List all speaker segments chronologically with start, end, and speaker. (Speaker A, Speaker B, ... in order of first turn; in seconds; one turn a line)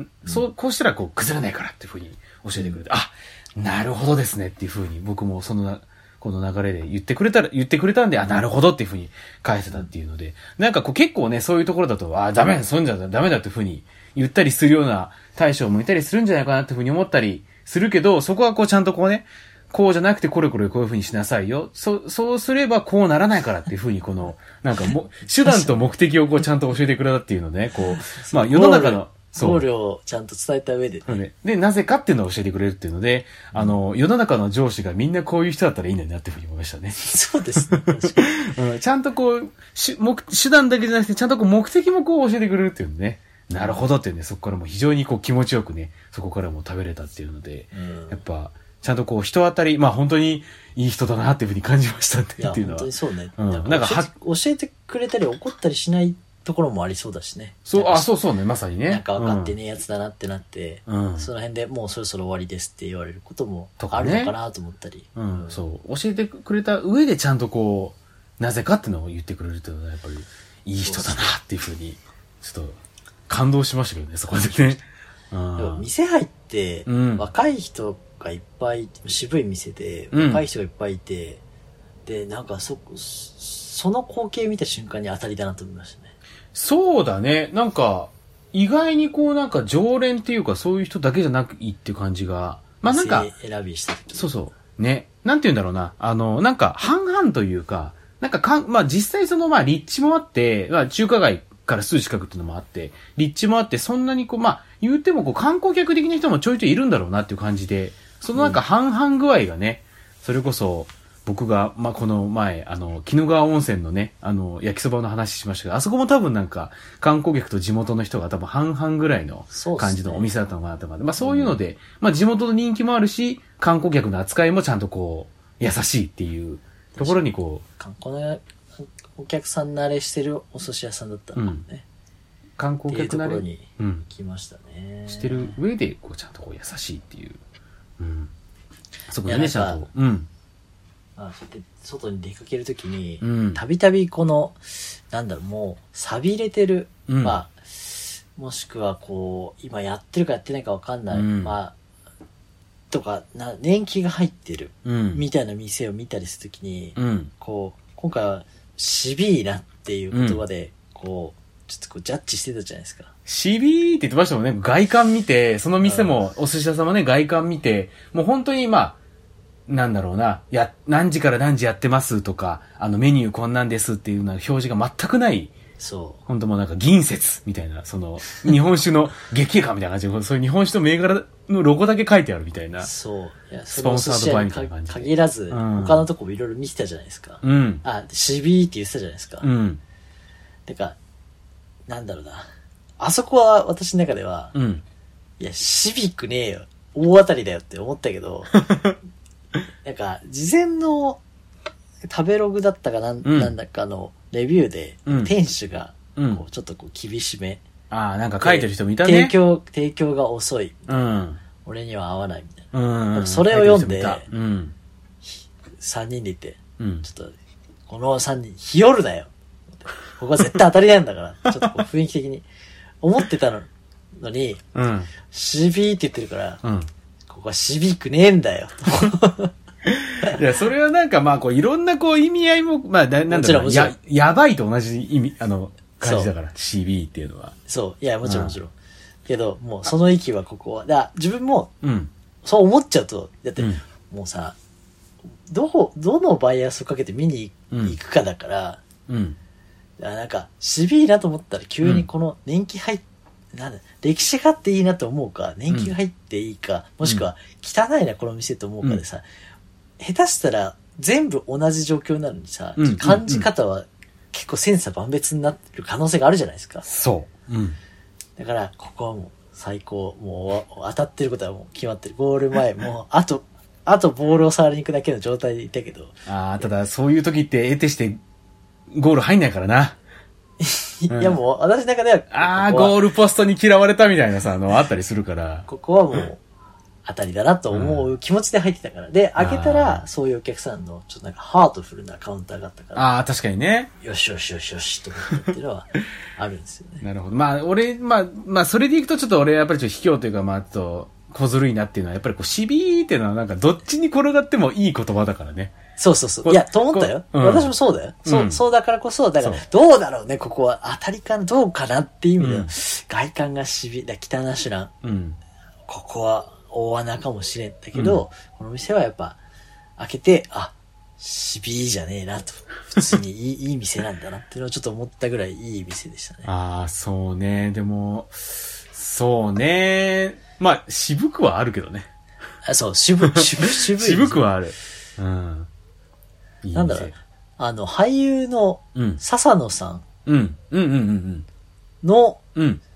Speaker A: 0.2-29.6
Speaker B: 25.4-25.8
Speaker B: 28.1-31.2
Speaker A: 31.1-37.0
Speaker B: 37.0-38.4
Speaker A: 37.6-54.1
Speaker B: 47.7-48.2
Speaker B: 52.4-58.1
Speaker A: 57.7-59.5
Speaker B: 58.9-65.6
Speaker A: 60.9-61.3
Speaker A: 63.8-64.3
Speaker A: 65.2-75.8
Speaker B: 70.8-71.3
Speaker B: 75.5-81.4
Speaker A: 76.9-77.2
Speaker A: 80.1-80.5
Speaker B: 82.0-86.1
Speaker A: 86.5-93.3
Speaker B: 92.8-94.3
Speaker A: 94.1-127.6
Speaker B: 108.3-108.6
Speaker B: 119.5-120.3
Speaker B: 121.2-121.6
Speaker B: 126.9-127.2
Speaker B: 127.8-131.8
Speaker A: 131.3-131.6
Speaker A: 132.6-134.1
Speaker B: 132.9-135.5
Speaker A: 135.1-137.4
Speaker A: 138.0-138.3
Speaker A: 139.1-140.3
Speaker B: 139.2-139.8
Speaker B: 141.2-151.7
Speaker A: 143.2-143.6
Speaker A: 147.1-147.4
Speaker A: 151.1-151.5
Speaker B: 152.9-163.1
Speaker A: 154.8-155.2
Speaker A: 156.9-157.3
Speaker A: 160.1-160.4
Speaker A: 163.3-169.0
Speaker B: 165.8-166.2
Speaker A: 169.7-175.5
Speaker B: 175.8-176.2
Speaker A: 176.3-182.9
Speaker B: 182.8-189.5
Speaker A: 183.7-186.1
Speaker A: 187.4-187.8
Speaker A: 189.4-189.8
Speaker B: 190.7-191.0
Speaker B: 191.9-192.5
Speaker B: 193.0-194.5
Speaker A: 194.5-194.8
Speaker B: 195.4-198.6
Speaker A: 198.7-198.9
Speaker B: 199.8-201.2
Speaker B: 202.1-207.6
Speaker A: 203.2-203.5
Speaker A: 205.1-205.3
Speaker A: 206.2-206.4
Speaker A: 207.9-209.3
Speaker B: 208.4-211.1
Speaker A: 210.9-211.4
Speaker B: 211.6-214.3
Speaker A: 212.7-214.7
Speaker B: 215.2-217.3
Speaker A: 216.8-217.1
Speaker B: 217.9-222.5
Speaker B: 223.0-224.6
Speaker A: 224.7-225.1
Speaker B: 225.2-226.6
Speaker A: 226.6-226.9
Speaker B: 227.3-229.5
Speaker A: 229.8-237.6
Speaker B: 233.3-233.9
Speaker B: 236.0-236.3
Speaker B: 237.7-238.7
Speaker A: 238.2-238.6
Speaker B: 239.3-241.7
Speaker A: 241.8-242.1
Speaker B: 242.4-244.6
Speaker A: 243.6-243.8
Speaker B: 245.5-248.8
Speaker A: 247.7-247.9
Speaker A: 249.1-249.4
Speaker B: 250.0-259.2
Speaker B: 260.0-266.9
Speaker A: 262.8-263.5
Speaker A: 266.8-267.8
Speaker B: 268.4-276.7
Speaker A: 276.2-278.2
Speaker A: 278.9-280.0
Speaker B: 280.6-283.0
Speaker A: 281.1-281.4
Speaker A: 282.3-285.7
Speaker B: 285.7-286.4
Speaker B: 287.0-293.1
Speaker A: 287.7-288.1
Speaker A: 289.4-290.0
Speaker A: 292.9-293.9
Speaker B: 294.0-297.1
Speaker A: 297.0-305.7
Speaker B: 306.0-314.9
Speaker A: 306.4-307.7
Speaker A: 308.2-308.6
Speaker A: 312.4-312.7
Speaker A: 315.0-315.4
Speaker B: 315.9-319.4
Speaker A: 317.9-318.2
Speaker B: 320.0-326.5
Speaker A: 326.4-332.1
Speaker B: 332.6-334.5
Speaker A: 333.2-335.7
Speaker A: 336.6-337.1
Speaker B: 336.7-340.0
Speaker A: 338.9-339.2
Speaker A: 340.2-341.4
Speaker B: 342.0-342.4
Speaker A: 342.5-342.8